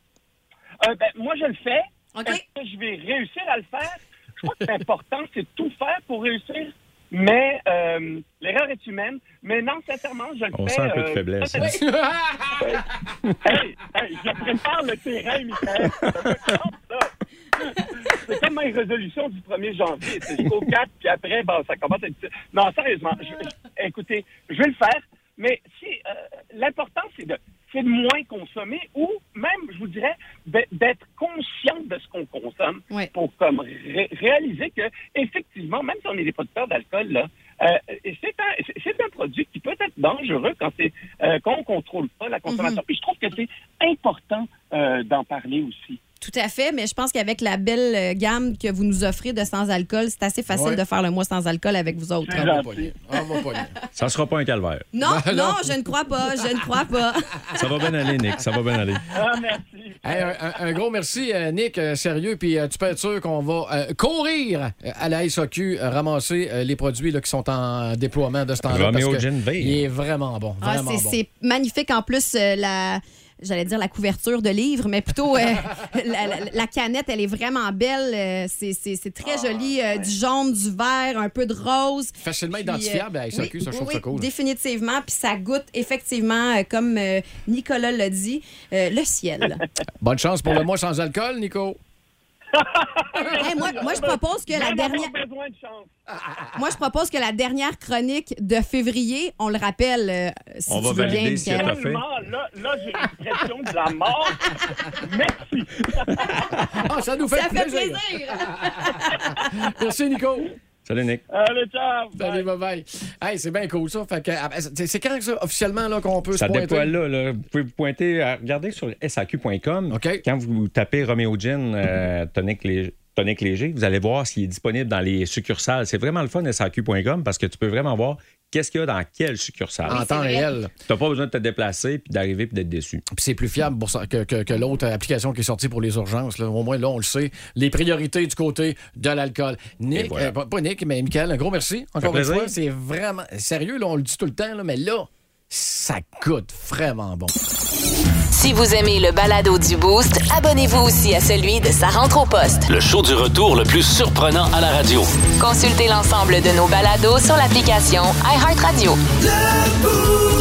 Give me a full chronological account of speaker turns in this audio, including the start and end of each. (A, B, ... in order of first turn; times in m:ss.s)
0:00.8-0:11.8 A
0:02.1-0:02.4 B
0:10.5-0:11.8 C
0:11.6-0:12.7 D
0:12.6-0:12.8 A
0:13.4-0:46.0 A
0:42.5-0:42.8 B
0:46.2-0:52.6 B
0:50.5-0:50.8 D
0:52.2-0:52.9 A
0:52.3-0:53.7 D
0:54.0-0:54.9 C
0:54.9-0:57.5 B
0:55.0-0:55.8 D
0:57.6-0:59.0 C
0:59.1-1:00.3 A
1:00.0-1:11.2 D
1:08.6-1:09.9 C
1:10.6-1:29.6 B
1:19.2-1:20.1 A
1:22.2-1:24.3 D
1:30.0-1:31.8 D
1:32.5-1:35.9 A
1:33.2-1:35.1 B
1:36.6-1:41.7 B
1:40.7-1:42.1 C
1:41.4-1:46.3 A
1:46.1-1:46.6 C
1:46.8-1:50.5 D
1:47.3-1:49.5 B
1:50.8-1:51.2 C
1:51.3-1:52.4 A
1:52.2-1:57.0 D
1:56.4-2:10.0 C
1:59.9-2:00.2 D
2:09.9-2:10.7 D
2:09.9-2:10.5 B
2:10.8-2:13.0 C
2:13.1-2:27.3 D
2:19.9-2:20.4 C
2:22.0-2:22.6 C
2:28.3-2:32.7 E
2:32.7-2:35.1 F
2:35.4-2:39.0 E